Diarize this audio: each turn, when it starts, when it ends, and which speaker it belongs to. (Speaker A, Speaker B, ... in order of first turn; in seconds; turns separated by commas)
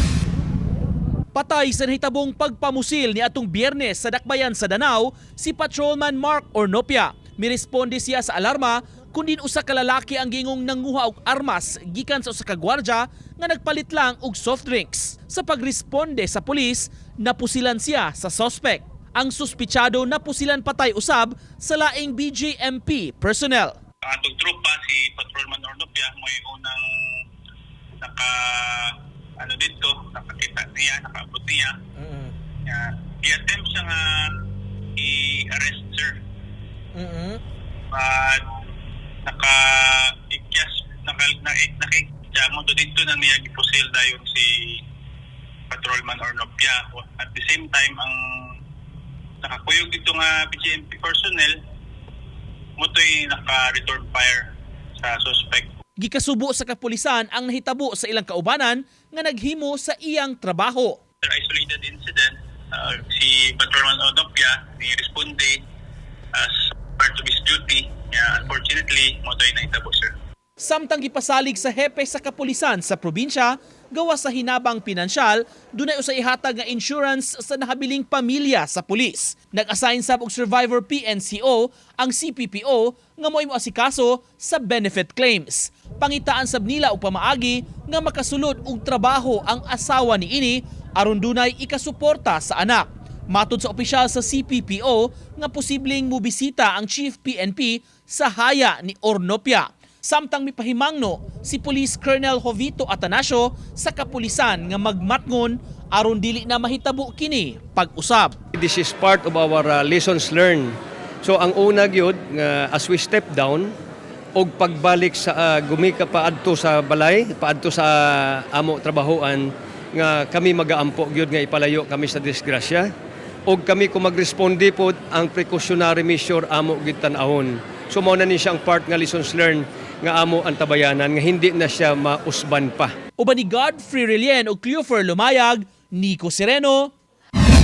Speaker A: 1.3-23.8, Speaker B: 24.0-26.9, Speaker B: 28.0-31.8, Speaker A: 32.0-32.3, Speaker B: 32.7-34.4, Speaker B: 35.0-36.2, Speaker A: 37.0-37.4, Speaker B: 37.9-38.5, Speaker B: 39.3-44.8, Speaker B: 45.7-48.5, Speaker B: 49.4-51.5, Speaker B: 52.8-54.5, Speaker B: 55.0-55.7, Speaker A: 56.0-61.0, Speaker B: 61.2-65.6, Speaker B: 66.3-70.1, Speaker A: 70.6-108.4, Speaker C: 108.5-113.7, Speaker C: 114.4-122.9, Speaker C: 123.5-132.9, Speaker A: 133.2-136.9